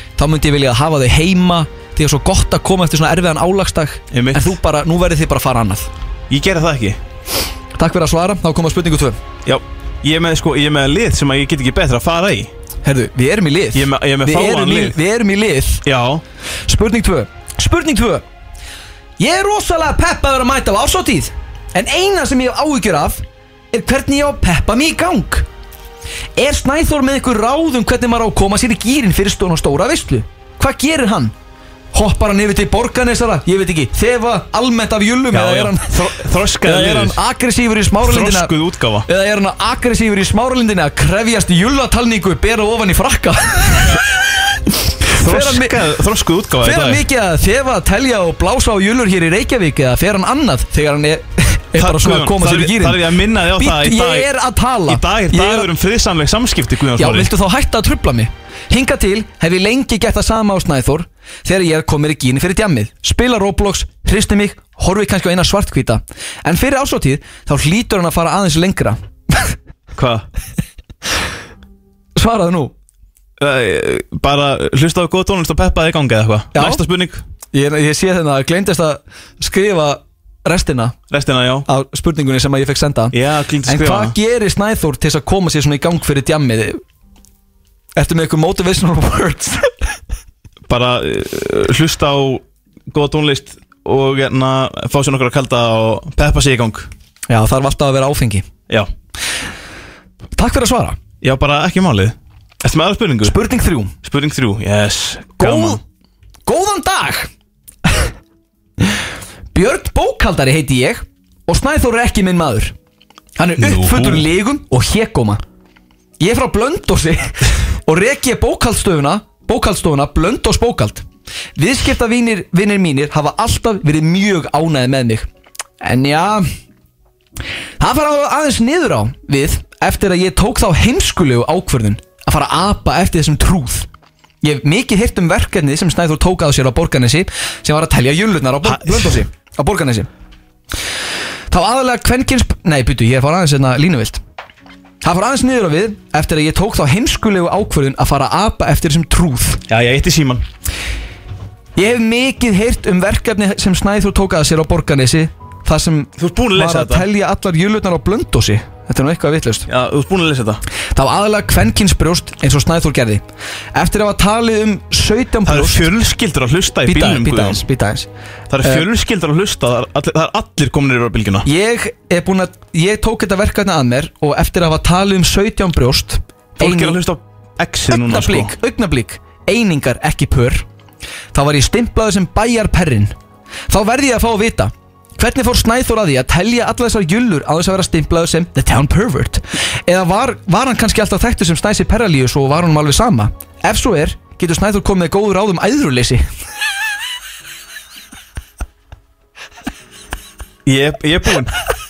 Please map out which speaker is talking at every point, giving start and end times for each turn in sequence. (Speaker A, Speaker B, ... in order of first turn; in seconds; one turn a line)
Speaker A: 0.2-5.9
Speaker B: 4.1-4.6
Speaker B: 6.3-7.0
Speaker A: 7.8-9.2
Speaker B: 9.4-12.5
Speaker A: 12.8-15.8
Speaker B: 13.7-15.0
Speaker B: 15.8-16.2
Speaker A: 16.7-18.2
Speaker A: 19.2-25.4
Speaker A: 26.4-31.3
Speaker A: 31.9-36.0
Speaker B: 35.3-37.2
Speaker A: 36.6-45.9
Speaker B: 38.0-39.1
Speaker B: 45.1-47.0
Speaker A: 46.6-55.7
Speaker B: 51.7-54.3
Speaker B: 54.9-57.3
Speaker A: 57.0-69.5
Speaker B: 69.9-70.3
Speaker A: 72.2-72.7
Speaker B: 73.4-77.2
Speaker A: 76.5-76.8
Speaker A: 77.5-81.0
Speaker B: 81.1-81.7
Speaker A: 81.7-86.8
Speaker B: 83.1-84.2
Speaker A: 88.0-89.8
Speaker B: 90.7-96.9
Speaker A: 97.3-98.5
Speaker A: 100.3-101.0
Speaker B: 101.2-103.4
Speaker A: 103.2-103.9
Speaker B: 104.0-105.8
Speaker A: 105.4-105.8
Speaker A: 106.5-107.3
Speaker A: 107.8-108.1
Speaker A: 109.5-112.7
Speaker A: 113.4-115.4
Speaker B: 113.6-114.3
Speaker A: 116.2-121.0
Speaker A: 121.6-125.3
Speaker A: 125.8-126.5
Speaker A: 127.8-133.9
Speaker A: 134.4-140.1
Speaker B: 138.6-139.2
Speaker A: 141.5-144.2
Speaker A: 145.0-149.6
Speaker B: 149.7-150.4
Speaker A: 151.8-159.7
Speaker B: 156.2-157.1
Speaker B: 159.7-160.6
Speaker A: 160.9-163.2
Speaker A: 163.7-165.9
Speaker B: 165.4-167.6
Speaker A: 166.8-168.1
Speaker B: 168.5-171.5
Speaker A: 171.4-177.0
Speaker B: 176.6-178.5
Speaker A: 177.9-180.7
Speaker A: 181.3-183.1
Speaker A: 183.7-196.2
Speaker B: 200.6-201.6